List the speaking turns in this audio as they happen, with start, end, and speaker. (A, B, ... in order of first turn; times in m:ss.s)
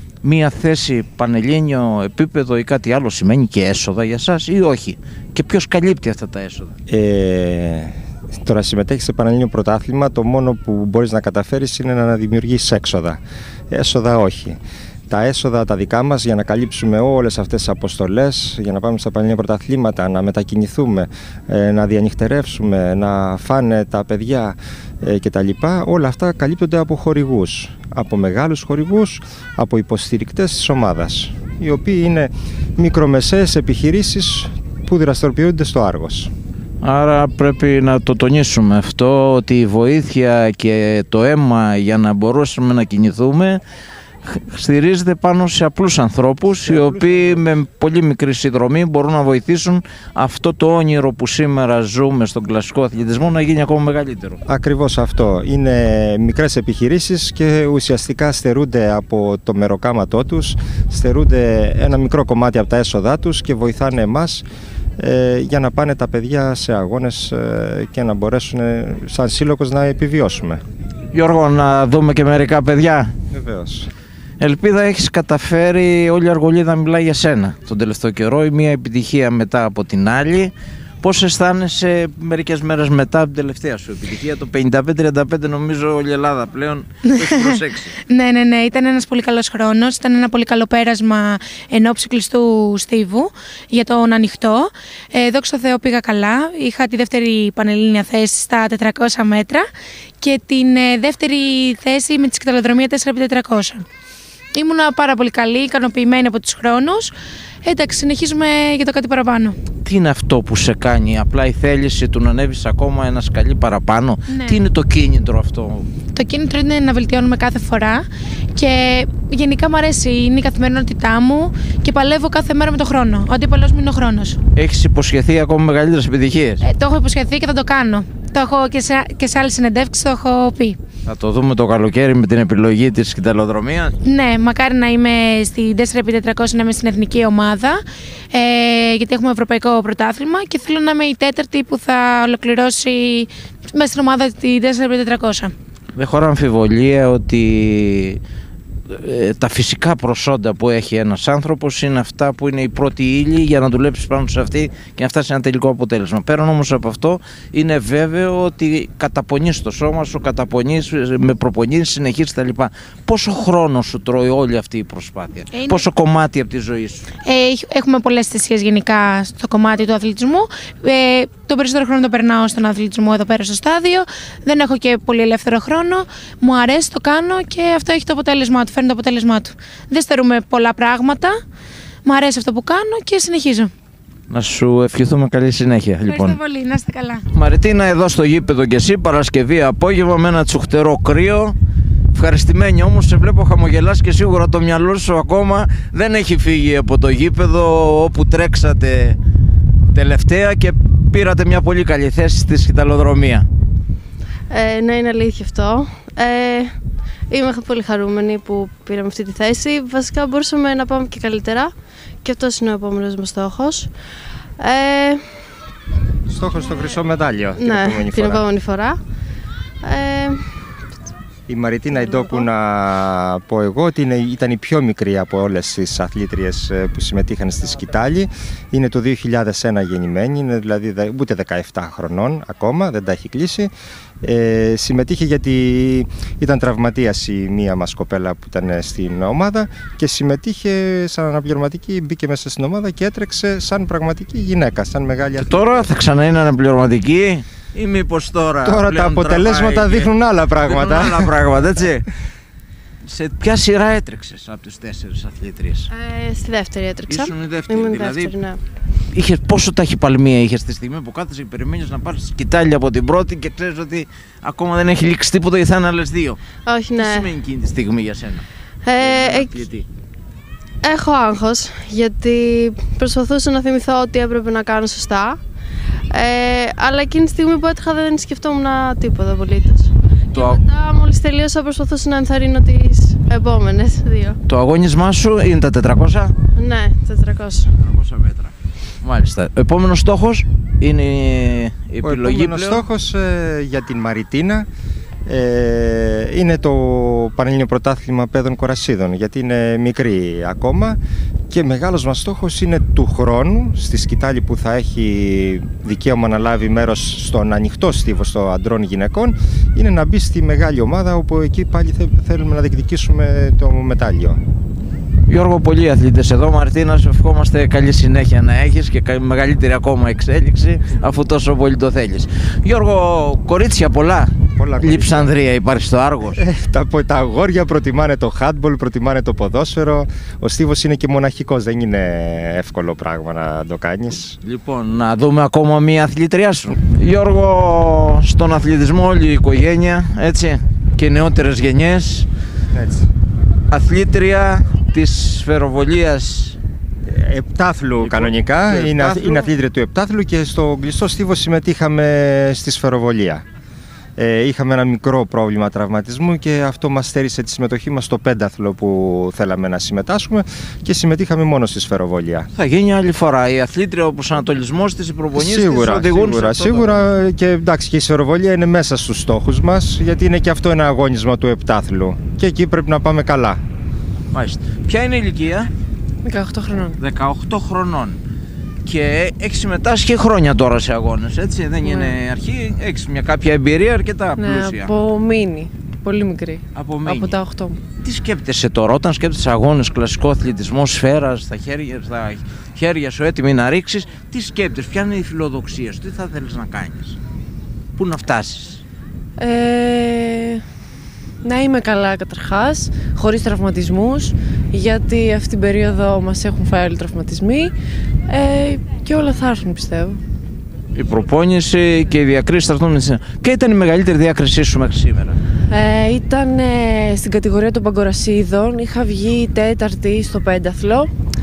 0:00.2-0:06.8 A
0:06.9-0:36.3 B
0:36.8-0:43.6 A
0:44.2-0:54.4 A
0:46.6-0:47.4 B
0:54.4-1:04.4 B
1:05.0-1:10.6 B
1:11.1-1:13.1 A
1:13.3-1:13.9 B
1:14.4-1:28.0 A
1:27.1-1:39.6 C
1:40.2-1:43.8 C
1:44.5-1:47.1 C
1:47.6-1:49.6 C
1:49.8-1:55.9 A
1:54.3-1:54.6 C
1:56.1-2:04.4 C
2:04.6-2:06.6 A
2:06.6-2:10.8 C
2:11.0-2:14.0 A
2:14.0-2:25.5 C
2:25.9-2:28.2 A
2:28.9-2:47.0 A
2:45.5-2:45.8 C
2:47.2-3:01.4 C
3:02.0-3:03.7 C
3:04.3-3:06.4 A
3:06.1-3:07.2 C
3:07.3-3:11.6 A
3:12.1-3:19.2 A
3:19.9-3:23.4 A
3:24.5-3:26.7 D
3:27.3-3:31.7 D
3:32.2-3:33.9 D
3:34.6-3:35.2 D
3:36.3-3:38.4 B
3:37.6-3:39.0 D
3:39.8-3:40.4 D
3:41.5-4:05.9 B
3:42.2-3:42.4 D
4:05.4-4:12.1 A
4:08.6-4:11.3 B
4:13.0-4:15.9 A
4:15.9-4:18.6 D
4:17.0-4:18.4 A
4:19.1-4:26.4 A
4:26.6-4:27.3 D
4:27.0-4:28.4 A
4:28.8-4:29.6 D
4:29.0-4:29.8 A
4:30.8-4:35.4 D
4:36.1-4:44.4 D
4:40.3-4:40.6 A
4:44.5-4:46.3 A
4:46.6-4:47.7 D
4:47.8-4:52.8 A
4:52.0-4:54.7 B
4:55.2-5:01.0 B
5:01.5-5:14.4 B
5:15.3-5:26.4 A
5:24.6-5:25.3 B
5:26.3-5:34.4 B
5:34.4-5:42.3 A
5:42.7-5:43.1 B
5:43.7-5:46.6 A
5:47.0-5:53.4 B
5:48.0-5:49.5 A
5:54.2-6:02.5 B
6:02.6-6:07.1 A
6:05.3-6:13.6 B
6:14.3-6:15.7 A
6:16.2-6:17.0 E
6:17.0-6:18.2 A
6:18.8-6:24.9 A
6:21.8-6:22.1 E
6:24.4-6:27.8 E
6:26.7-6:27.4 A
6:28.0-6:37.2 A
6:38.0-6:38.8 A
6:39.4-6:40.6 E
6:41.4-6:47.7 E
6:48.3-6:50.2 E
6:50.9-6:55.4 A
6:55.7-7:01.1 E